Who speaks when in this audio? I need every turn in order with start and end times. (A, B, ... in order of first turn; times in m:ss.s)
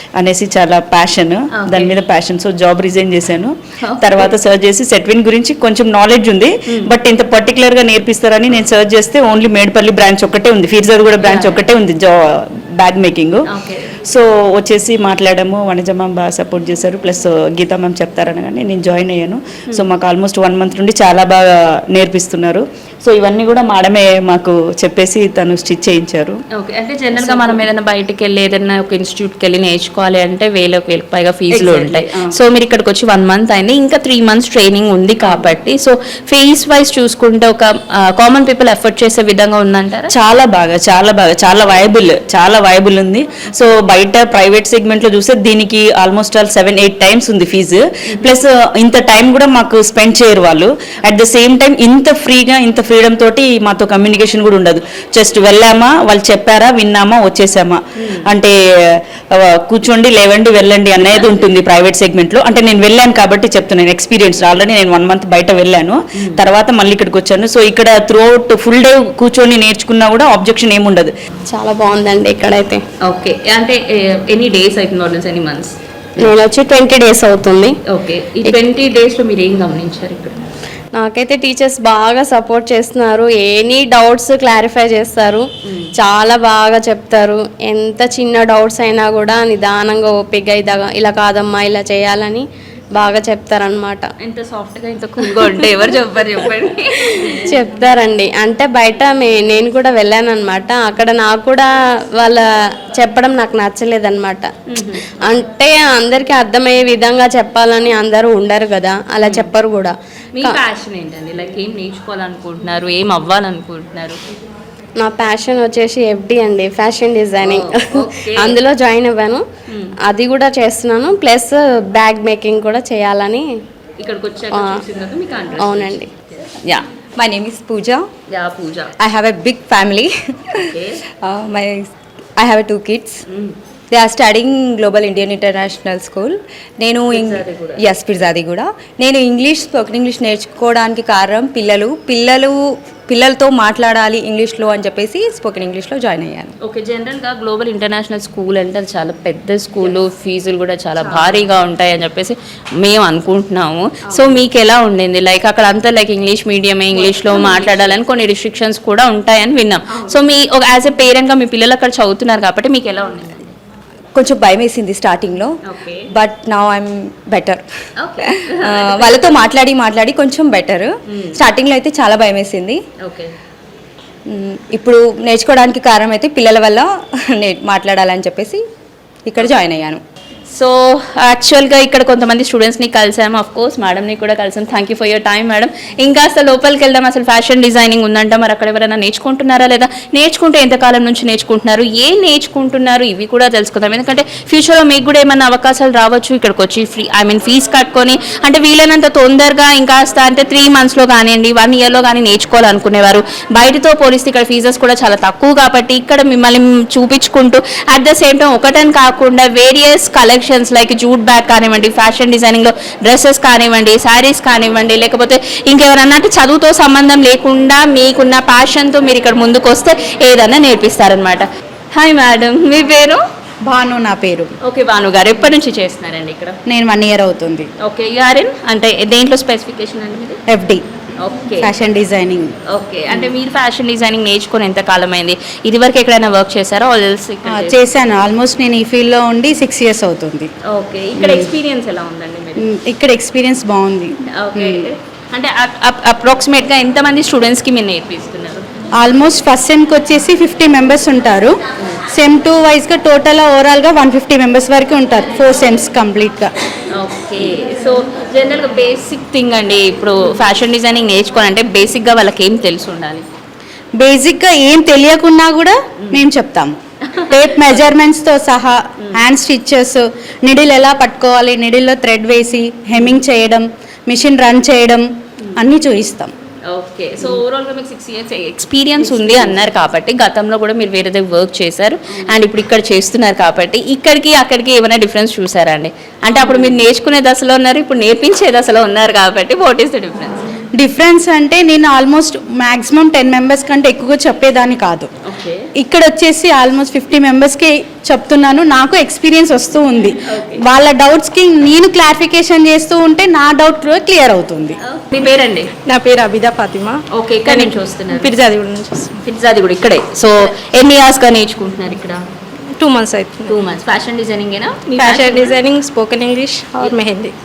0:00.2-0:26.4 A
0:01.6-0:02.0 B
0:03.8-0:04.3 B
0:11.2-0:11.6 B
0:13.5-0:14.0 B
0:26.5-0:40.1 B
0:40.1-1:11.1 A
0:58.0-0:58.3 B
1:01.1-1:01.4 B
1:11.5-1:12.8 C
1:13.0-1:15.7 B
1:16.2-1:17.7 C
1:17.9-1:20.4 B
1:20.9-1:25.4 C
1:26.0-1:32.4 C
1:33.0-1:34.1 C
1:34.2-1:37.5 B
1:37.5-1:44.5 C
1:44.7-1:45.1 B
1:45.2-1:50.6 C
1:49.2-1:49.5 B
1:50.3-1:54.2 B
1:55.0-1:59.4 C
1:57.4-1:58.6 B
1:59.7-1:59.9 B
2:00.1-2:03.5 C
2:04.0-2:06.5 B
2:04.5-2:04.8 C
2:05.6-2:06.1 C
2:07.2-2:08.1 D
2:08.3-2:08.9 B
2:09.0-2:13.2 D
2:10.6-2:11.0 B
2:13.3-2:13.6 B
2:13.9-2:26.6 D
2:17.1-2:17.8 B
2:26.6-2:43.5 B
2:37.3-2:37.7 E
2:44.1-2:45.5 D
2:45.6-2:46.0 B
2:46.1-2:47.6 D
2:48.0-2:49.4 B
2:48.2-2:52.8 D
2:51.1-2:51.4 B
2:53.0-2:53.3 B
2:54.3-2:58.6 D
2:59.2-3:00.0 D
3:00.5-3:43.2 B
3:43.6-3:44.5 F
3:44.6-3:46.6 B
3:46.7-3:47.7 F
3:47.8-3:50.4 B
3:50.5-3:50.8 F
3:51.2-3:51.7 B
3:51.6-3:52.5 F
3:52.7-3:57.8 B
3:57.4-4:00.5 F
4:00.7-4:02.6 B
4:01.2-4:01.5 F
4:02.6-4:04.8 F
4:04.3-4:08.6 B
4:09.0-4:11.5 F
4:12.1-4:16.5 F
4:16.9-4:23.2 B
4:24.0-4:26.7 F
4:27.1-4:27.8 B
4:27.3-4:36.3 F
4:36.7-4:50.4 B
4:46.4-4:46.7 E
4:50.8-4:55.1 F
4:55.2-4:55.7 B
4:55.8-5:04.8 F
5:00.2-5:00.6 B
5:04.8-5:05.7 B
5:05.8-5:09.1 E
5:07.1-5:08.3 B
5:09.2-5:12.2 B
5:12.8-5:13.6 E
5:13.5-5:15.5 B
5:15.0-5:17.3 E